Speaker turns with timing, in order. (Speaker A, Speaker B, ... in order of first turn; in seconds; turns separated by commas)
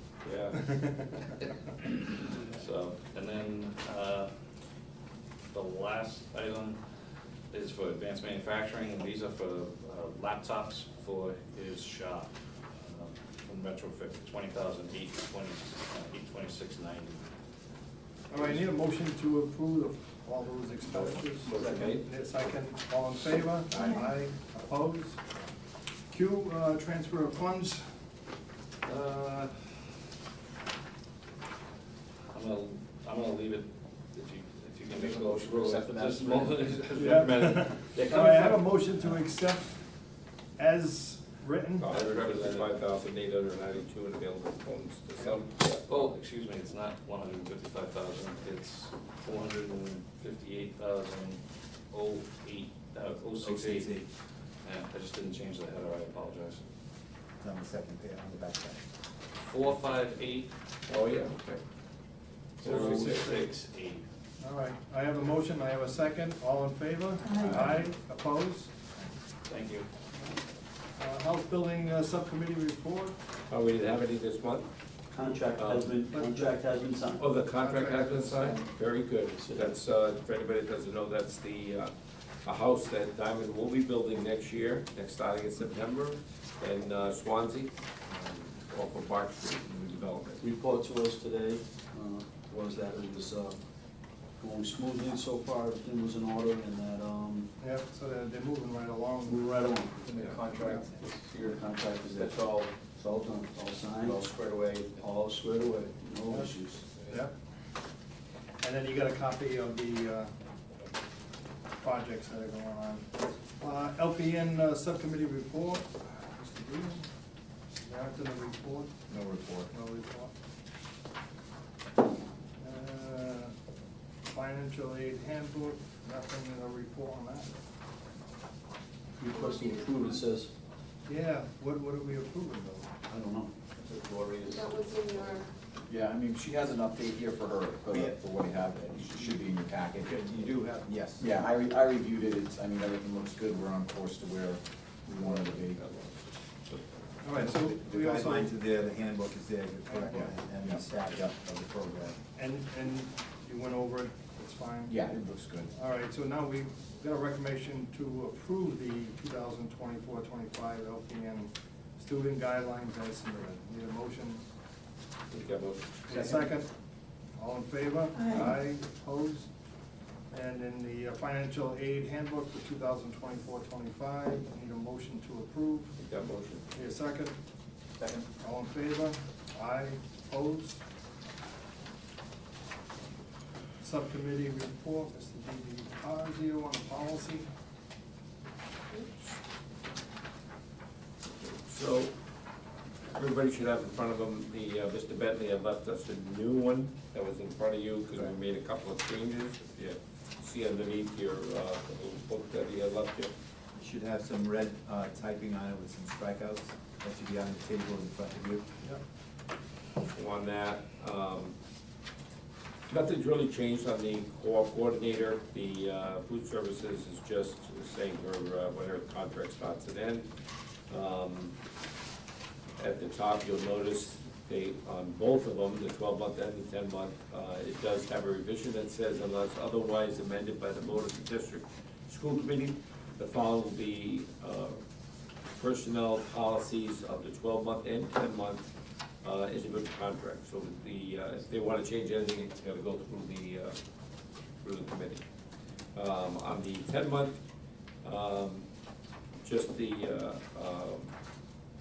Speaker A: 0.2-0.9, Speaker B: 0.5-1.4, Speaker C: 2.4-4.3, Speaker C: 5.5-6.8, Speaker C: 7.5-17.2, Speaker B: 18.3-25.2, Speaker A: 20.9-22.0, Speaker B: 26.1-27.9, Speaker C: 28.8-29.7, Speaker C: 32.3-38.7, Speaker D: 34.9-36.5, Speaker B: 36.9-39.9, Speaker B: 40.6-41.9, Speaker A: 41.8-45.9, Speaker C: 41.9-42.7, Speaker B: 45.2-45.4, Speaker C: 45.9-54.0, Speaker E: 53.4-54.0, Speaker C: 54.6-56.7, Speaker E: 57.4-58.8, Speaker C: 59.4-60.5, Speaker A: 60.9-61.6, Speaker A: 62.6-63.5, Speaker C: 62.6-64.0, Speaker B: 62.8-63.1, Speaker B: 64.4-68.7, Speaker E: 67.4-67.7, Speaker C: 69.5-69.9, Speaker B: 71.0-73.2, Speaker A: 73.5-74.7, Speaker F: 75.1-77.3, Speaker A: 75.5-75.9, Speaker B: 76.1-76.5, Speaker A: 77.2-81.9, Speaker B: 77.6-78.6, Speaker F: 79.3-79.8, Speaker A: 82.4-90.4, Speaker F: 90.4-93.5, Speaker F: 94.4-97.5, Speaker B: 97.6-99.5, Speaker F: 99.2-106.8, Speaker A: 100.1-100.4, Speaker B: 100.5-100.8, Speaker B: 108.6-110.3, Speaker B: 111.8-117.1, Speaker B: 117.8-118.9, Speaker D: 119.1-119.7, Speaker B: 119.7-120.3, Speaker B: 122.6-123.5, Speaker B: 124.3-127.5, Speaker F: 129.2-130.5, Speaker G: 129.3-130.2, Speaker B: 131.1-132.9, Speaker F: 133.1-133.7, Speaker G: 134.4-135.5, Speaker D: 135.9-145.8, Speaker E: 137.9-141.3, Speaker A: 145.2-147.2, Speaker B: 147.2-148.5, Speaker E: 147.3-152.2, Speaker B: 149.8-150.4, Speaker B: 152.3-155.0, Speaker D: 154.9-155.7, Speaker B: 155.7-164.4, Speaker A: 165.3-166.0, Speaker B: 166.1-166.7, Speaker B: 167.4-169.5, Speaker B: 170.3-175.9, Speaker A: 176.0-176.7, Speaker B: 176.7-177.3, Speaker B: 178.3-180.8, Speaker B: 183.8-187.5, Speaker A: 191.3-192.1, Speaker A: 193.2-203.3, Speaker E: 203.8-208.6, Speaker A: 210.1-211.5, Speaker A: 212.9-220.3, Speaker A: 220.9-221.5, Speaker A: 222.8-234.8, Speaker A: 235.6-238.7, Speaker A: 239.2-243.8, Speaker A: 244.6-245.2, Speaker A: 245.9-247.4, Speaker A: 248.0-248.7, Speaker A: 249.4-251.1